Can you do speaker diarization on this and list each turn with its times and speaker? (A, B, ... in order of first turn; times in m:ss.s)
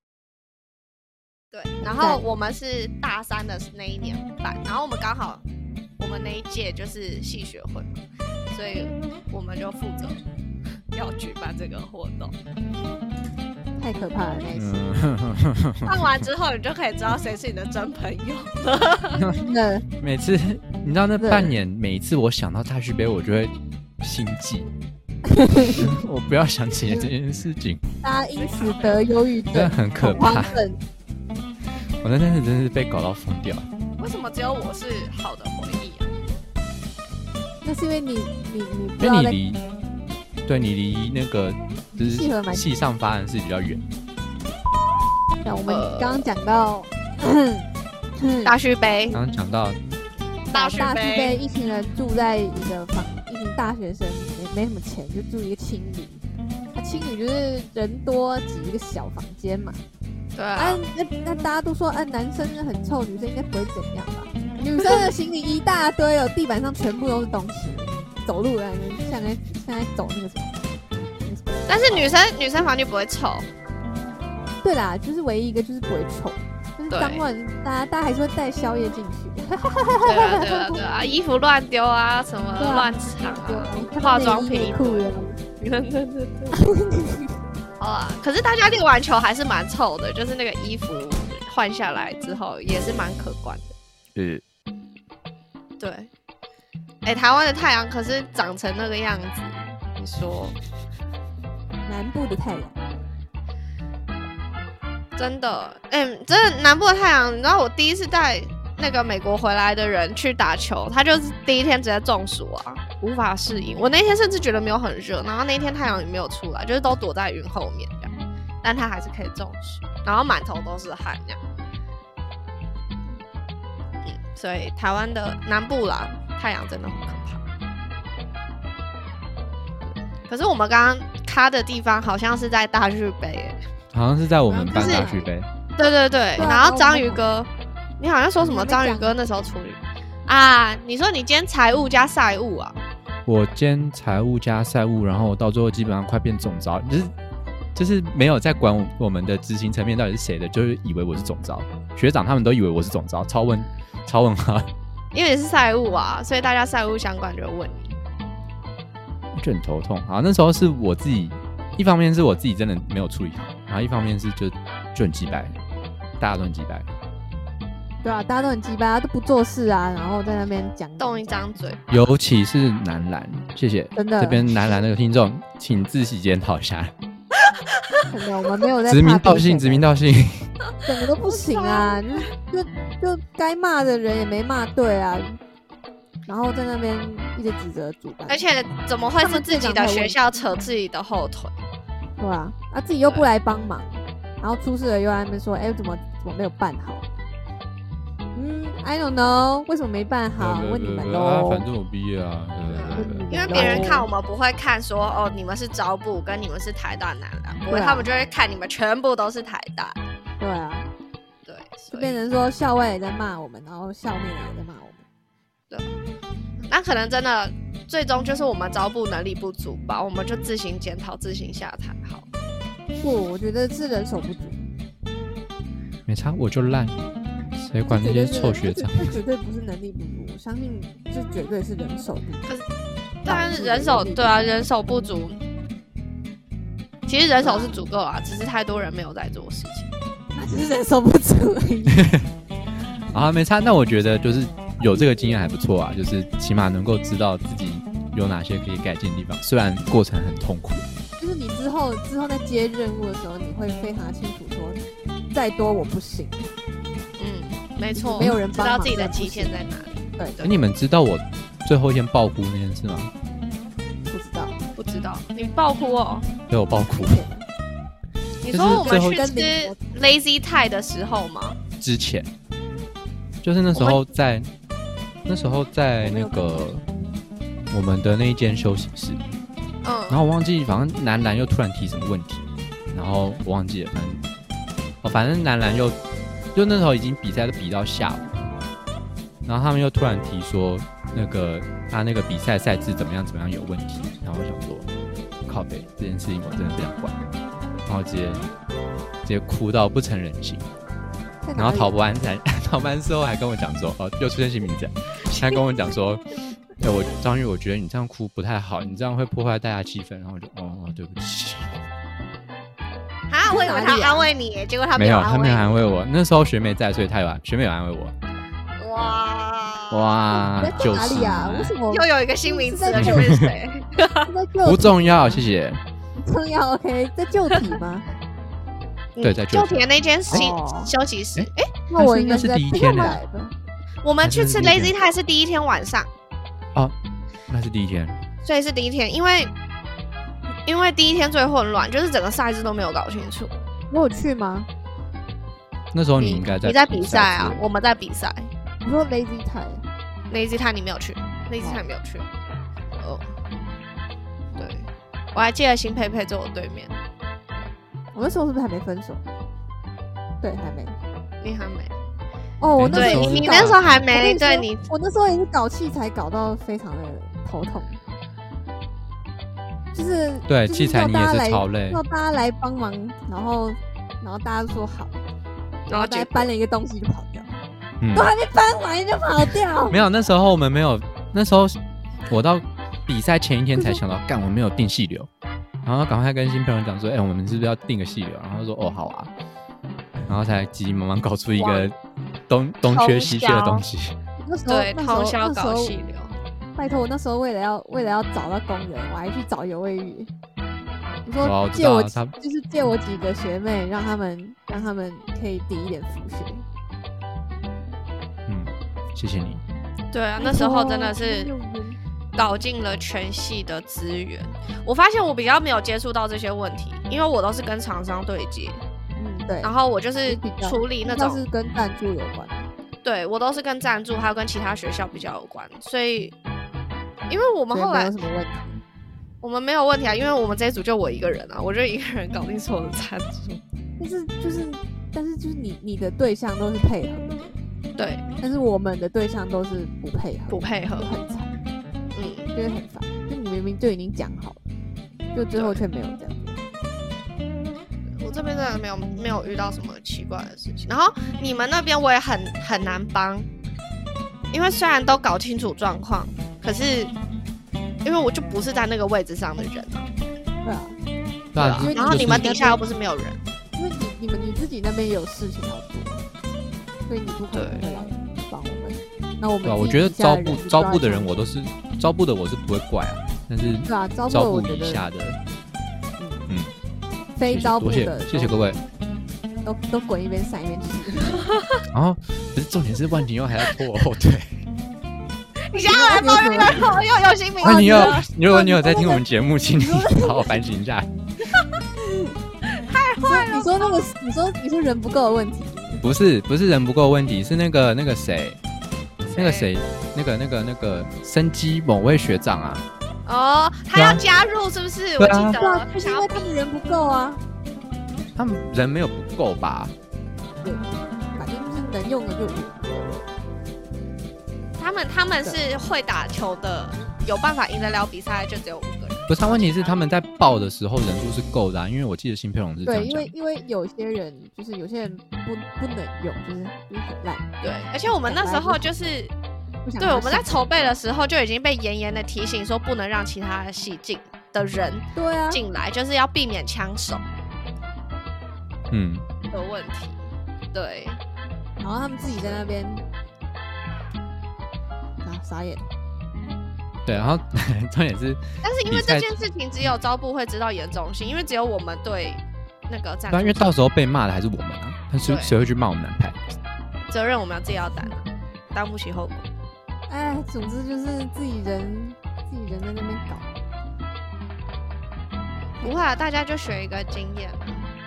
0:01.5-0:05.4 A
0:01.8-0:02.2 B
0:06.0-0:08.0 A
0:08.5-0:10.2 A
0:10.9-0:12.3 A
0:13.8-0:14.9 B
0:14.5-0:16.1 C
0:15.8-0:19.3 A
0:19.4-0:19.9 B
0:20.0-0:24.7 C
0:21.2-0:21.6 B
0:25.3-0:26.0 B
0:25.8-0:27.8 C
0:28.0-0:30.8 B
0:28.4-0:29.1 A
0:29.5-0:30.6 C
0:32.0-0:33.7 C
0:34.0-0:36.1 A
0:37.6-0:39.4 B
0:39.0-0:39.6 C
0:40.5-0:43.9 C
0:41.9-0:42.7 B
0:45.4-0:48.6 B
0:45.7-0:46.3 A
0:48.4-0:49.2 A
0:49.1-0:49.8 C
0:50.5-0:51.4 A
0:50.5-0:56.2 B
0:56.7-0:59.8 B
1:00.4-1:00.8 A
1:00.6-1:10.6 B
1:11.2-1:12.2 B
1:11.7-1:13.4 A
1:14.6-1:21.1 B
1:16.9-1:17.2 A
1:20.0-1:25.1 A
1:22.6-1:25.3 B
1:25.6-1:26.6 A
1:26.5-1:27.4 B
1:27.8-1:33.7 A
1:34.2-1:34.4 C
1:35.8-1:36.1 A
1:37.0-1:40.6 A
1:41.9-1:42.8 B
1:45.2-1:58.1 A
1:58.6-2:01.4 A
2:04.0-2:07.4 A
2:09.9-2:13.6 A
2:13.9-2:15.5 C
2:14.4-2:15.3 B
2:14.7-2:15.1 A
2:15.8-2:22.8 A
2:16.4-2:17.2 B
2:18.4-2:19.2 B
2:23.3-2:27.1 C
2:27.8-2:34.7 C
2:35.1-2:38.0 A
2:39.4-2:45.6 C
2:46.2-2:46.9 C
2:48.0-2:51.4 B
2:51.0-2:51.8 A
2:51.9-2:56.9 C
2:54.0-2:54.8 B
2:58.1-2:59.9 B
2:58.9-3:00.5 C
3:00.8-3:05.4 B
3:01.2-3:02.3 A
3:06.3-3:08.5 B
3:08.3-3:11.6 A
3:09.2-3:10.2 B
3:12.2-3:17.1 B
3:18.3-3:21.7 B
3:20.4-3:23.9 C
3:22.7-3:30.0 A
3:23.0-3:24.1 B
3:27.7-3:28.1 B
3:30.4-3:30.9 B
3:31.5-3:32.2 A
3:31.9-3:35.0 B
3:36.7-3:42.3 A
3:43.0-3:44.7 B
3:46.1-3:47.0 C
3:47.7-3:49.2 C
3:47.9-3:52.4 B
3:53.2-3:55.4 A
3:53.3-3:54.6 B
3:57.1-3:59.9 A
3:57.4-3:57.8 B
4:00.3-4:02.1 B
4:03.1-4:10.8 C
4:04.8-4:05.4 B
4:11.2-4:14.8 B
4:15.3-4:16.5 B
4:17.2-4:20.7 A
4:17.9-4:19.5 B
4:20.2-4:20.4 B
4:20.4-4:23.1 C
4:24.1-4:24.6 B
4:24.8-4:26.3 A
4:26.5-4:27.2 C
4:26.8-4:27.5 B
4:28.4-4:31.6 A
4:28.5-4:29.2 C
4:28.7-4:29.9 B
4:31.8-4:32.3 C
4:33.4-4:34.5 C
4:33.7-4:34.0 A
4:35.3-4:36.8 C
4:36.0-4:36.7 B
4:37.7-4:39.2 C
4:39.8-4:40.2 A
4:40.1-4:44.2 C
4:45.0-4:46.0 C
4:46.5-4:48.3 C
4:49.5-4:54.9 C
4:55.5-4:57.2 C
4:57.9-4:58.5 C
4:59.2-5:00.6 C
5:01.4-5:02.0 B
5:01.6-5:11.8 C
5:13.3-5:15.8 A
5:13.5-5:14.3 B
5:15.0-5:18.1 C
5:18.8-5:20.2 A
5:19.9-5:21.8 C
5:20.3-5:23.3 B
5:21.9-5:24.3 A
5:23.0-5:23.4 C
5:24.3-5:25.4 B
5:24.6-5:25.8 C
5:26.2-5:28.1 B
5:29.2-5:31.7 A
5:29.2-5:30.5 C
5:30.3-5:30.9 B
5:31.4-5:33.2 C
5:31.9-5:33.5 B
5:34.0-5:36.1 A
5:34.2-5:35.0 C
5:37.5-5:38.2 C
5:38.4-5:39.5 A
5:40.7-5:43.6 A
5:43.9-5:44.7 B
5:45.9-5:47.6 C
5:46.2-5:48.5 A
5:48.8-5:49.8 B
5:50.3-5:52.3 A
5:53.0-5:53.3 A
5:54.6-5:56.9 A
5:58.1-5:59.3 B
6:00.4-6:01.0 B
6:01.4-6:01.9 A
6:02.6-6:08.0 B
6:02.8-6:04.0 C
6:02.9-6:04.9 A
6:09.9-6:15.2 B
6:10.5-6:12.0 C
6:15.9-6:16.5 A
6:15.9-6:17.5 B
6:18.0-6:18.3 C
6:18.1-6:20.0 B
6:19.9-6:21.8 C
6:22.3-6:25.3 C
6:23.8-6:24.0 B
6:25.8-6:29.3 C
6:30.3-6:32.0 C
6:31.6-6:31.9 A
6:32.5-6:34.2 C
6:32.8-6:33.9 A
6:34.4-6:36.0 B
6:34.7-6:36.4 A
6:36.8-6:40.3 B
6:41.3-6:46.6 B
6:41.4-6:42.3 C
6:48.5-6:49.6 C
6:50.1-6:51.5 A
6:50.4-6:52.0 B
6:52.4-6:58.8 A
6:59.2-6:59.7 B
6:59.6-7:01.4 A
7:00.2-7:02.7 B
7:03.0-7:06.3 A
7:07.3-7:08.2 A
7:07.7-7:08.8 B
7:09.4-7:13.6 A
7:14.0-7:17.6 B
7:18.0-7:18.3 A
7:18.4-7:21.5 B
7:20.5-7:21.1 A
7:22.1-7:22.5 A
7:22.5-7:24.6 B
7:25.3-7:26.6 B
7:25.6-7:25.8 A
7:28.2-7:33.5 A
7:34.5-7:37.1 A
7:38.0-7:40.1 A
7:40.6-7:41.0 B
7:41.5-7:42.5 C
7:41.6-7:43.4 A
7:41.6-7:42.8 B
7:43.8-7:46.3 B
7:47.1-7:51.5 B
7:47.5-7:47.9 A
7:49.6-7:55.4 C
7:53.9-7:55.0 B
7:56.2-7:56.5 B
7:57.4-7:58.6 B
7:57.4-7:58.8 C
7:59.6-8:01.5 B
8:01.9-8:04.6 C
8:05.7-8:08.3 A
8:05.7-8:06.9 B
8:07.6-8:11.1 C
8:07.6-8:10.6 B
8:12.0-8:12.4 B
8:12.7-8:14.1 A
8:13.2-8:16.0 B
8:16.0-8:18.6 C
8:19.3-8:22.8 C
8:19.3-8:19.7 A
8:23.3-8:26.5 A
8:23.9-8:24.2 C
8:25.2-8:25.6 C
8:25.5-8:27.4 B
8:28.4-8:29.9 C
8:30.6-8:33.3 B
8:34.8-8:40.0 A
8:39.3-8:43.3 C
8:42.8-8:47.5 B
8:47.6-8:49.3 A
8:48.0-8:49.2 B
8:49.8-8:50.7 B
8:50.0-8:57.2 A
8:55.2-8:55.6 B
8:58.9-8:59.2 C
8:59.4-9:01.2 A
9:01.8-9:03.0 B
9:02.3-9:02.6 A
9:05.2-9:05.9 B
9:07.1-9:09.4 C
9:08.6-9:13.7 A
9:13.3-9:16.4 C
9:15.2-9:15.5 A
9:17.1-9:19.5 A
9:20.1-9:23.5 B
9:25.8-9:26.2 B
9:25.8-9:27.9 A